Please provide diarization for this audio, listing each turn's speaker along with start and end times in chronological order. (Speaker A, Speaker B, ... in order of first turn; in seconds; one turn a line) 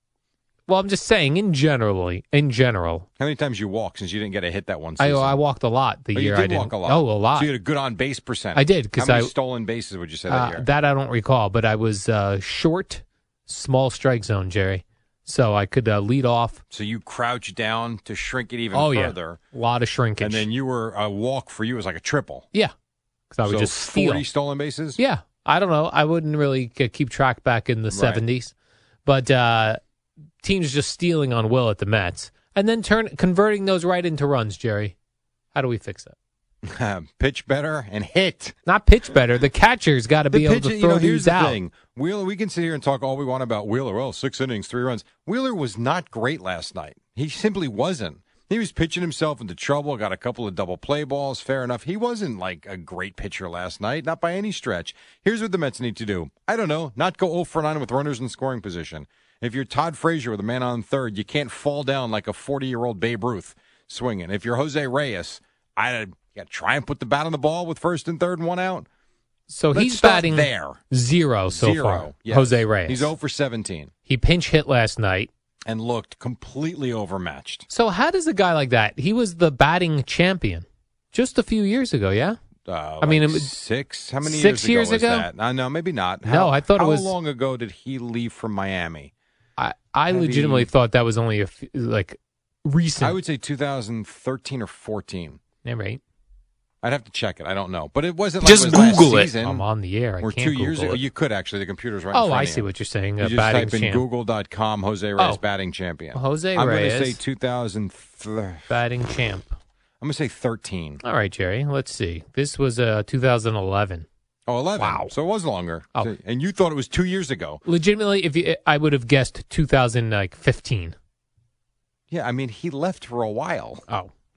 Speaker A: 0.7-3.1
Speaker B: 3.2-5.4
Speaker A: 5.0-7.5
Speaker B: 6.1-10.7
Speaker A: 8.6-9.3
Speaker A: 10.3-16.6
Speaker B: 16.7-19.4
Speaker A: 18.7-20.4
Speaker B: 20.2-22.5
Speaker A: 23.3-24.2
Speaker B: 23.4-25.0
Speaker A: 25.0-28.5
Speaker B: 27.9-28.2
Speaker A: 29.1-29.8
Speaker A: 30.4-34.9
Speaker A: 35.5-36.1
Speaker B: 36.6-38.6
Speaker A: 38.6-41.6
Speaker B: 40.3-68.9
Speaker A: 69.5-73.1
Speaker B: 69.7-70.8
Speaker B: 71.5-73.9
Speaker A: 74.1-75.3
Speaker B: 75.7-77.7
Speaker A: 77.7-82.4
Speaker B: 82.7-89.1
Speaker A: 83.0-83.5
Speaker A: 84.2-85.3
Speaker A: 86.2-87.1
Speaker A: 89.6-93.2
Speaker B: 90.1-90.7
Speaker B: 93.0-95.4
Speaker A: 95.6-96.0
Speaker B: 96.8-99.6
Speaker A: 98.4-101.0
Speaker B: 100.2-102.7
Speaker A: 102.1-104.0
Speaker B: 103.2-108.7
Speaker A: 106.1-107.2
Speaker A: 108.7-109.6
Speaker B: 110.0-111.0
Speaker A: 111.0-114.1
Speaker B: 114.5-117.6
Speaker A: 114.8-115.1
Speaker A: 117.6-121.0
Speaker B: 122.1-123.8